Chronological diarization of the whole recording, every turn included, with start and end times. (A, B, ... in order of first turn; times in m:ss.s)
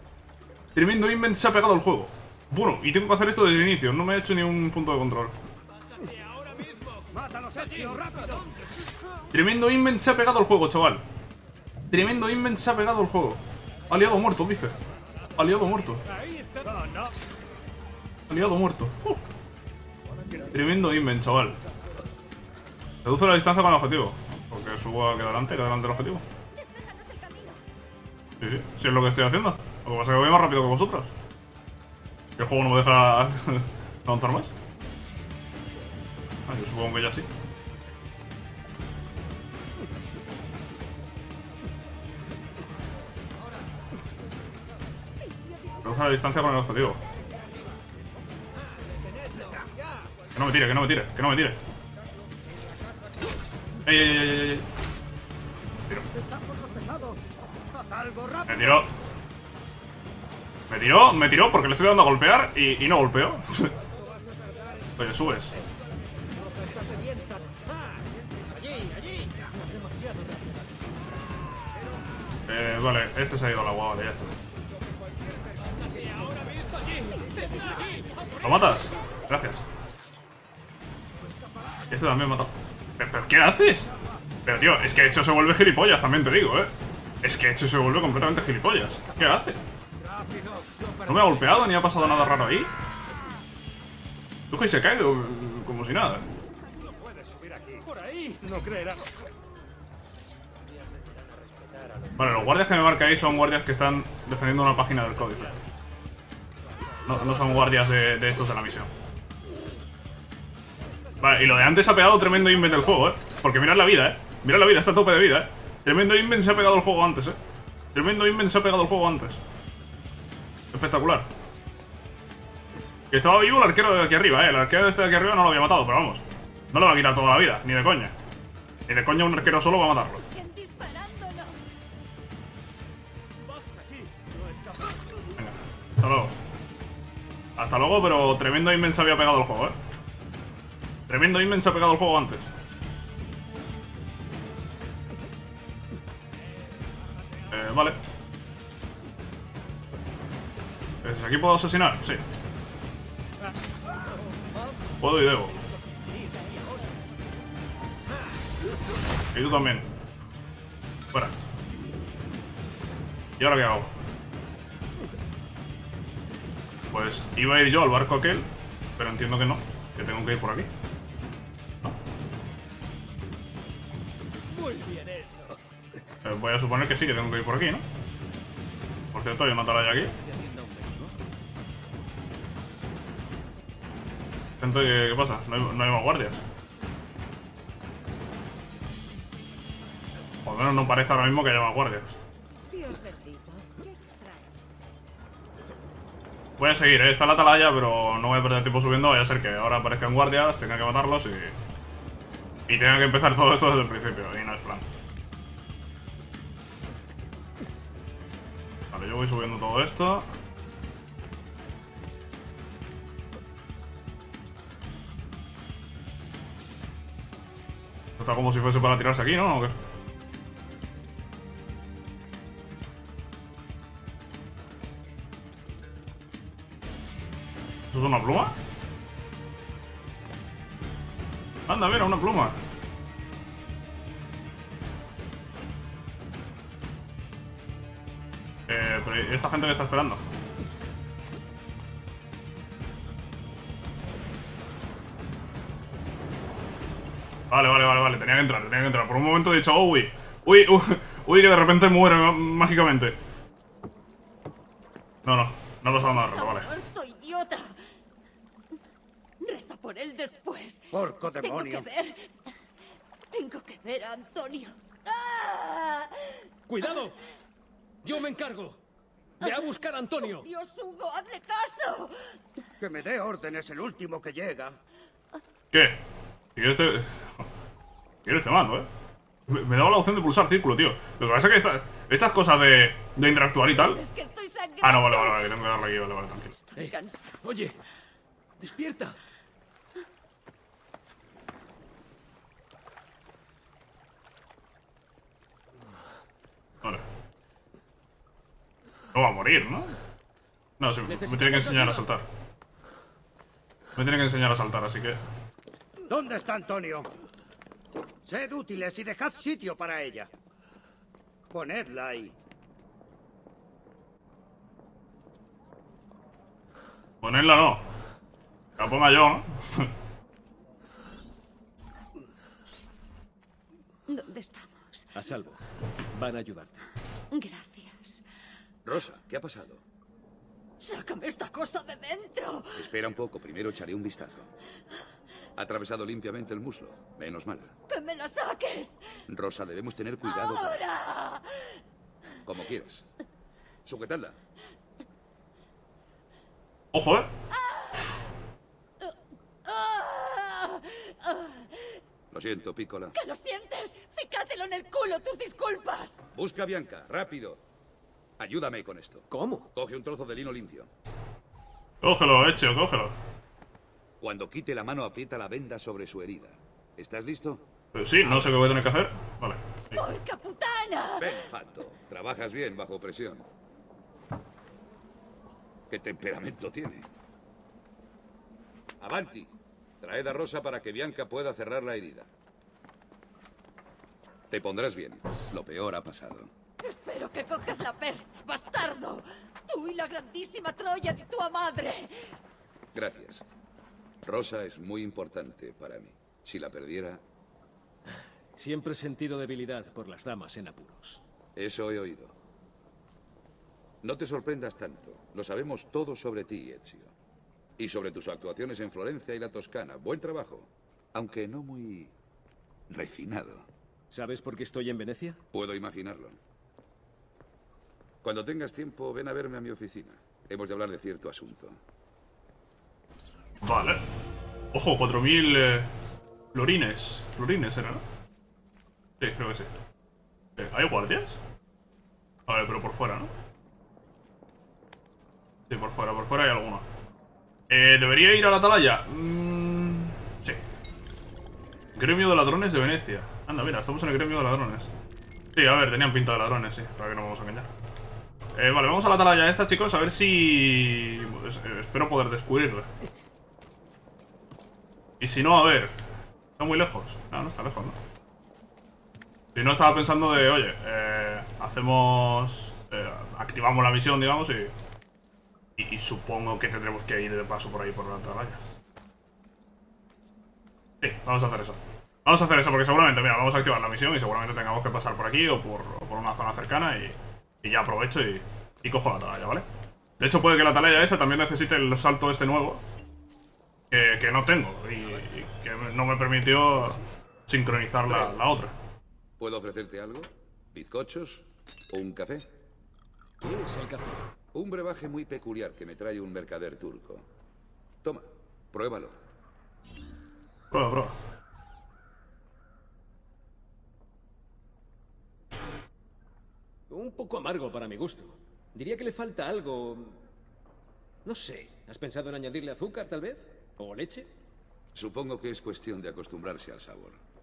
0:00.7-0:05.3 A
0:07.1-0:08.6 B
0:09.3-0:11.0 A
0:11.9-0:14.8 A
0:15.4-0:16.0 A
0:16.5-0:17.1 B
0:18.3-0:19.2 A
0:20.5-0:21.6 A
0:23.0-0:26.2 A
0:26.5-0:27.6 C
0:28.4-0:31.1 A
0:32.4-0:34.5 A
0:36.5-0:37.3 A
0:45.8-0:47.0 A
0:49.4-0:49.7 B
0:50.3-0:51.6 A
0:53.8-0:54.6 A
0:56.2-0:57.2 B
0:57.7-0:58.8 B
0:58.4-0:58.9 A
1:00.7-1:03.8 A
1:05.0-1:05.5 A
1:06.6-1:07.6 B
1:12.5-1:14.4 A
1:17.1-1:18.0 C
1:18.4-1:19.6 A
1:21.9-1:23.9 A
1:24.4-1:29.6 A
1:31.0-1:32.7 A
1:34.5-1:36.2 A
1:37.4-1:39.0 B
1:42.2-1:45.5 A
1:47.0-1:48.9 A
1:51.2-1:57.4 A
1:57.9-1:59.4 A
2:00.7-2:01.3 A
2:03.1-2:08.1 A
2:08.9-2:10.2 A
2:10.2-2:11.7 C
2:15.4-2:16.3 A
2:17.6-2:19.8 A
2:21.1-2:22.5 A
2:27.5-2:28.0 A
2:31.0-2:32.2 A
2:35.0-2:35.6 A
2:39.3-2:39.9 A
2:43.4-2:43.9 A
2:46.9-2:50.7 A
2:54.7-2:55.4 D
2:56.2-2:57.8 A
2:59.1-3:00.2 A
3:00.6-3:00.9 D
3:04.6-3:06.4 A
3:10.4-3:12.2 A
3:12.7-3:14.4 C
3:16.6-3:21.5 A
3:22.7-3:24.8 A
3:28.9-3:30.2 A
3:38.2-3:39.7 A
3:47.9-3:48.5 A
3:51.7-3:52.6 A
3:58.7-4:00.2 A
4:07.5-4:13.2 A
4:15.2-4:16.7 A
4:16.1-4:17.8 C
4:19.4-4:22.5 C
4:20.9-4:21.8 B
4:23.3-4:26.5 C
4:26.7-4:27.2 D
4:28.0-4:28.8 D
4:29.4-4:30.5 D
4:29.4-4:32.4 C
4:32.8-4:34.8 B
4:35.7-4:36.0 A
4:36.6-4:37.4 A
4:38.2-4:38.9 A
4:39.5-4:44.0 A
4:43.7-4:45.6 C
4:44.8-4:46.5 A
4:46.6-4:47.4 C
4:46.8-4:47.8 D
4:48.6-4:49.2 D
4:59.1-5:00.0 A
5:00.8-5:02.2 A
5:01.0-5:02.0 D
5:04.0-5:05.2 A
5:06.1-5:07.1 B
5:08.2-5:10.3 B
5:11.5-5:12.3 B
5:17.2-5:17.8 A
5:18.8-5:19.9 A
5:24.1-5:25.1 C
5:25.1-5:25.6 D
5:26.1-5:26.9 D
5:27.3-5:28.2 C
5:28.8-5:29.8 E
5:30.8-5:32.9 C
5:32.8-5:34.5 E
5:35.6-5:37.7 E
5:37.9-5:39.2 C
5:39.3-5:40.8 E
5:40.2-5:41.8 C
5:42.4-5:43.0 E
5:43.8-5:44.4 E
5:46.9-5:47.3 A
5:47.5-5:48.2 C
5:49.0-5:52.0 C
5:52.3-5:53.1 E
5:53.1-5:56.2 C
5:56.3-5:57.6 E
5:58.4-6:00.9 E
5:59.3-5:59.7 D
6:02.0-6:03.2 A
6:04.2-6:07.6 E
6:07.9-6:10.0 A
6:08.2-6:08.7 E
6:10.0-6:11.4 C
6:11.2-6:13.4 E
6:15.9-6:17.1 E
6:19.0-6:22.3 E
6:24.5-6:26.5 E
6:26.8-6:32.4 C
6:32.9-6:33.4 E
6:34.2-6:37.2 E
6:38.5-6:41.2 D
6:41.6-6:42.3 E
6:44.0-6:47.1 E
6:47.8-6:52.1 E
6:52.9-6:53.7 E
6:54.1-6:55.4 D
6:55.5-6:56.4 E
6:58.2-7:01.8 E
7:03.6-7:04.0 A
7:04.7-7:05.9 A
7:06.5-7:08.0 A
7:09.2-7:09.7 A
7:10.6-7:11.4 A
7:12.5-7:13.3 A
7:15.7-7:16.8 A
7:17.7-7:20.6 A
7:21.9-7:24.9 A
7:25.5-7:27.7 A
7:28.6-7:32.9 A
7:35.2-7:35.9 A
7:36.6-7:38.0 A
7:39.5-7:44.7 A
7:45.8-7:48.6 A
7:51.0-7:59.6 A
8:00.2-8:02.8 A
8:03.9-8:08.7 A
8:08.1-8:08.3 E
8:09.4-8:12.5 E
8:13.4-8:14.2 D
8:14.5-8:17.3 E
8:18.0-8:19.2 E
8:20.7-8:21.2 A
8:26.9-8:30.2 D
8:31.2-8:34.3 D
8:34.9-8:37.2 E